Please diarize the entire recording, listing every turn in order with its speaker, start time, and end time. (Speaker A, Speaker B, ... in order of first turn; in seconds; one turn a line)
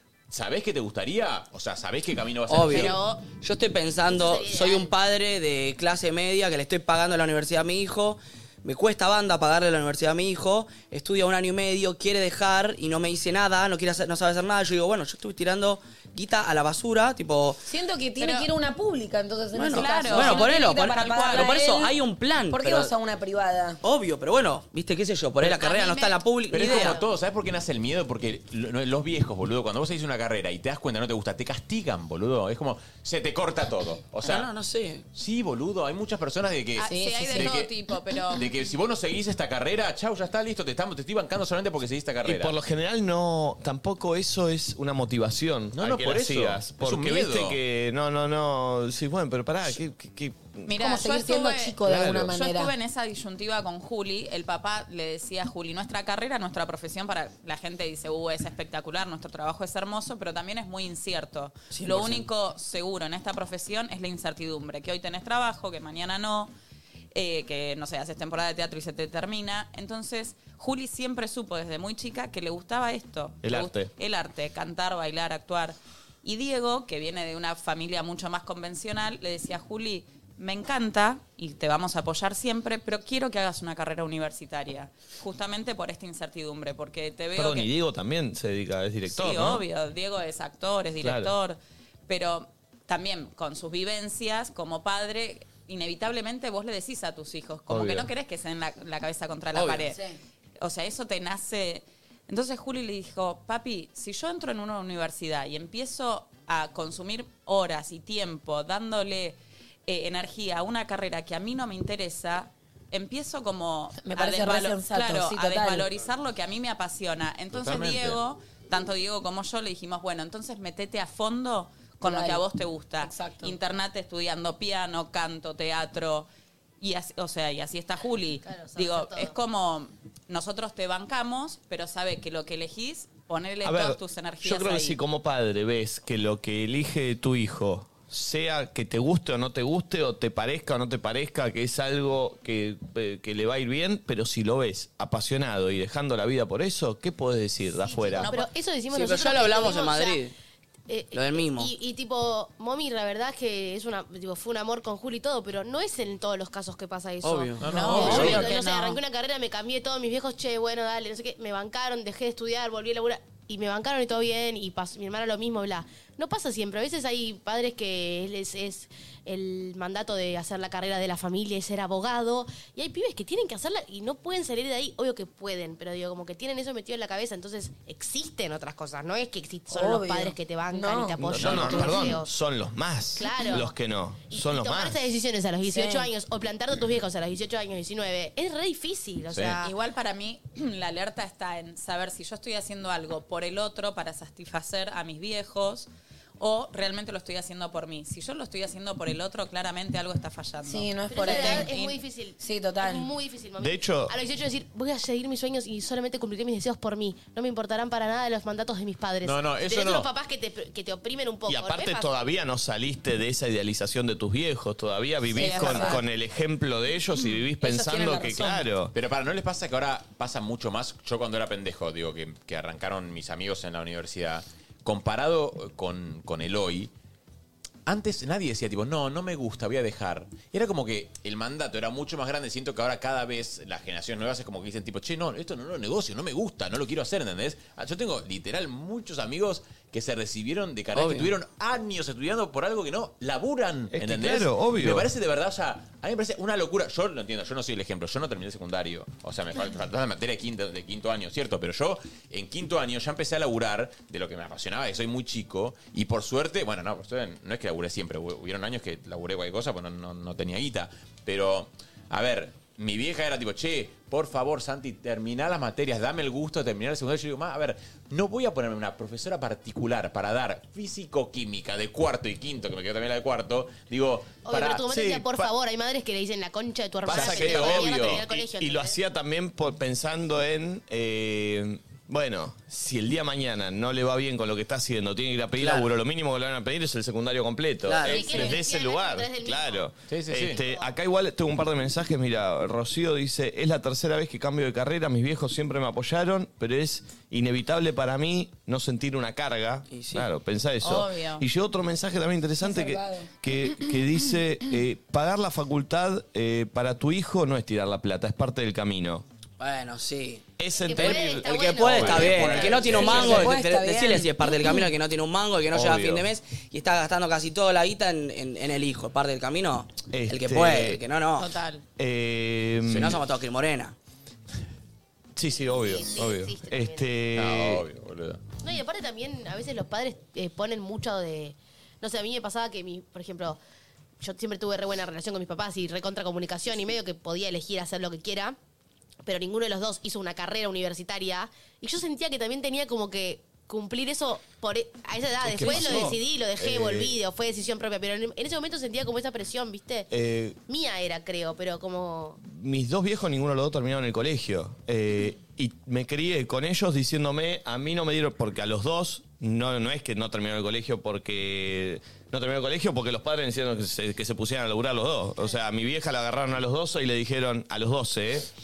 Speaker A: 0.3-3.0
Speaker B: 2.5-17.6
Speaker C: 2.7-3.2
Speaker D: 4.0-4.9
Speaker E: 17.6-21.9
Speaker C: 18.2-18.5
Speaker B: 19.5-22.9
Speaker C: 19.7-21.6
Speaker E: 22.5-23.8
Speaker B: 23.8-27.0
Speaker C: 25.4-26.9
Speaker A: 26.5-34.5
Speaker D: 26.8-27.0
Speaker B: 34.2-35.0
Speaker A: 35.1-37.7
Speaker C: 36.8-38.5
Speaker E: 36.9-37.5
Speaker A: 38.3-42.5
Speaker F: 42.2-50.7
Speaker A: 45.7-47.6
Speaker C: 50.6-66.5
Speaker E: 50.7-52.7
Speaker F: 51.9-52.3
Speaker B: 61.7-62.3
Speaker C: 67.1-87.7
Speaker F: 73.4-73.9
Speaker F: 87.3-89.6
Speaker C: 89.0-100.0
Speaker F: 91.0-91.3
Speaker F: 97.7-98.1
Speaker B: 99.5-99.9
Speaker E: 99.8-100.1
Speaker C: 100.6-126.3
Speaker E: 114.0-115.9
Speaker A: 117.5-118.2
Speaker E: 122.0-122.4
Speaker E: 123.0-123.6
Speaker C: 126.8-135.0
Speaker D: 128.4-129.3
Speaker F: 133.6-148.3
Speaker D: 147.8-150.2
Speaker C: 148.2-148.5
Speaker B: 148.9-150.3
Speaker D: 150.9-182.3
Speaker B: 151.1-151.7
Speaker B: 157.2-158.4
Speaker A: 157.6-158.5
Speaker C: 157.7-159.0
Speaker E: 179.7-182.2
Speaker F: 181.2-185.1
Speaker A: 181.4-181.8
Speaker D: 183.2-183.7
Speaker D: 184.3-189.7
Speaker E: 185.6-186.1
Speaker A: 189.3-189.6
Speaker C: 189.6-202.0
Speaker E: 200.6-201.7
Speaker D: 201.1-212.1
Speaker E: 202.4-203.1
Speaker F: 203.6-204.1
Speaker A: 209.2-210.1
Speaker F: 211.5-218.9
Speaker E: 215.3-216.0
Speaker C: 215.4-215.9
Speaker E: 217.6-218.7
Speaker A: 218.9-226.9
Speaker A: 227.8-274.9
Speaker B: 240.9-241.3
Speaker F: 243.9-245.1
Speaker D: 274.4-279.0
Speaker F: 274.9-275.5
Speaker F: 277.1-309.2
Speaker A: 277.1-278.4
Speaker B: 285.6-285.9
Speaker B: 287.8-288.5
Speaker D: 288.0-289.9
Speaker A: 290.1-290.6
Speaker D: 290.5-290.9
Speaker B: 299.9-300.3
Speaker C: 300.8-301.4
Speaker E: 302.6-303.3
Speaker B: 309.6-321.5
Speaker F: 310.6-312.4
Speaker D: 310.8-313.3
Speaker A: 311.9-313.5
Speaker E: 313.1-314.8
Speaker F: 315.7-316.3
Speaker F: 320.1-321.0
Speaker C: 321.4-321.8
Speaker F: 322.0-323.2
Speaker B: 322.9-323.9
Speaker F: 325.4-327.8
Speaker D: 325.6-327.1
Speaker A: 327.3-328.4
Speaker D: 328.6-333.6
Speaker D: 334.2-338.6
Speaker D: 339.2-350.1
Speaker F: 345.4-347.1
Speaker A: 345.7-346.0
Speaker A: 346.7-346.9
Speaker F: 350.1-350.6
Speaker D: 350.7-352.4
Speaker F: 352.4-368.5